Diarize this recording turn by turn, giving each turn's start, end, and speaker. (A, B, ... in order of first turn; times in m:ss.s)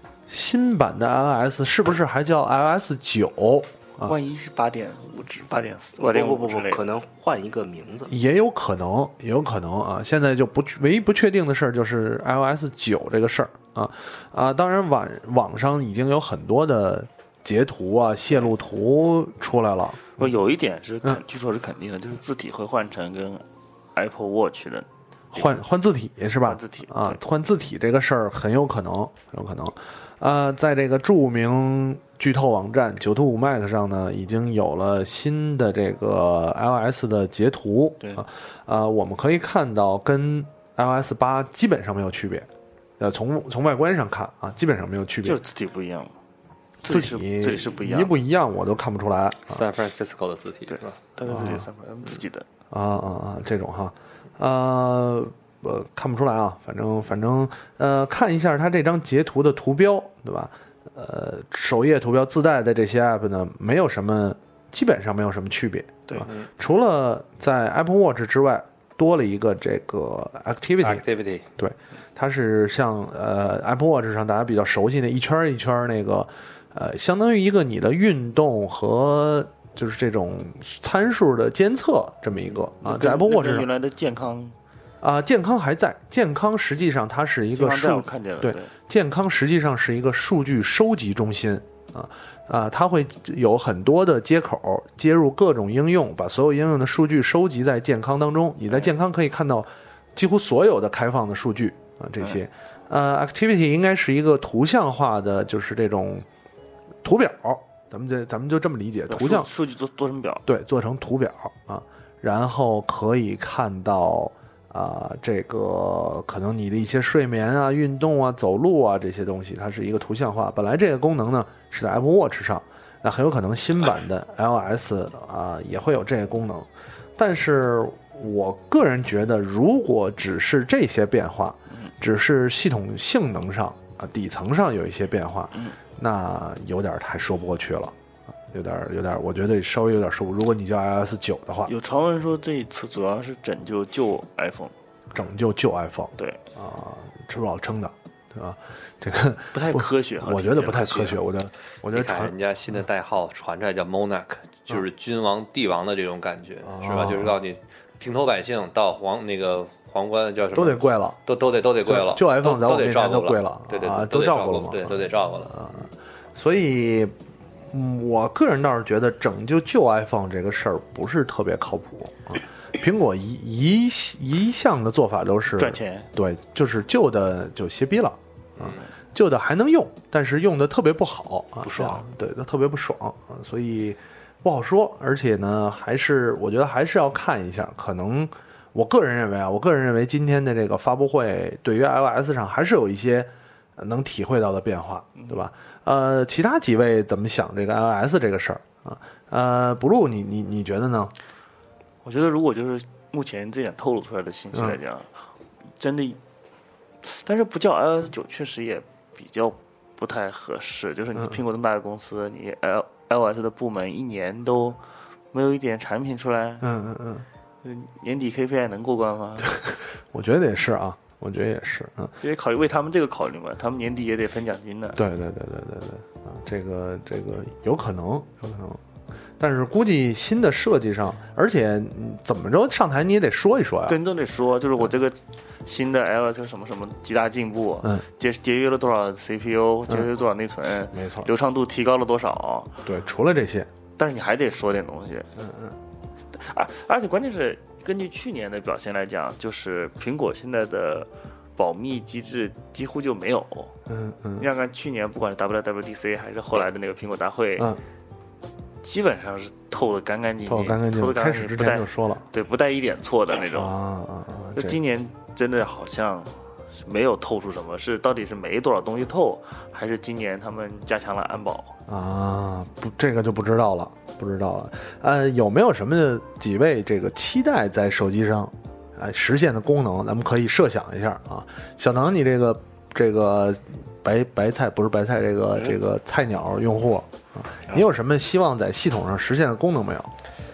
0:00.3-0:04.2 A
0:04.0-0:06.8 B
0:06.0-0:08.1 C
0:08.1-0:20.3 A
0:20.2-0:23.4 B
0:24.0-0:25.6 B
0:25.3-0:45.4 A
0:26.4-0:27.2 B
0:45.2-0:46.1 B
0:46.8-0:48.2 B
0:46.9-0:49.6 A
0:49.5-0:51.0 D
0:50.7-0:52.4 B
0:51.3-0:51.7 A
0:52.7-1:11.0 A
1:10.8-1:11.5 D
1:11.6-1:23.7 A
1:22.8-1:24.6 B
1:25.0-1:46.3 A
1:27.6-1:28.7 B
1:47.0-1:49.5 A
1:49.1-1:50.4 B
1:50.5-2:18.0 A
2:18.5-2:21.7 A
2:21.7-2:24.7 B
2:25.1-2:32.3 A
2:29.5-2:31.1 B
2:31.9-2:45.6 D
2:36.6-2:37.4 A
2:40.5-2:41.2 A
2:41.8-2:47.2 A
2:47.7-3:21.1 A
2:55.5-2:56.1 B
2:58.6-2:58.9 B
3:01.6-3:02.0 C
3:15.2-3:15.4 B
3:22.0-3:25.1 B
3:25.8-3:26.2 B
3:27.0-3:34.8 B
3:35.3-3:36.7 B
3:36.6-3:37.3 A
3:37.6-3:39.6 B
3:40.1-3:42.1 A
3:42.2-3:45.0 B
3:45.0-3:48.8 A
3:49.4-3:54.0 A
3:53.9-4:02.8 B
4:00.9-4:01.3 A
4:02.8-4:03.7 A
4:04.0-4:05.3 B
4:05.4-4:05.8 A
4:06.3-4:13.7 B
4:13.9-4:14.5 A
4:14.4-4:17.7 B
4:18.8-4:23.8 B
4:20.5-4:22.2 A
4:23.5-4:24.8 A
4:24.6-4:31.8 B
4:31.9-4:50.1 A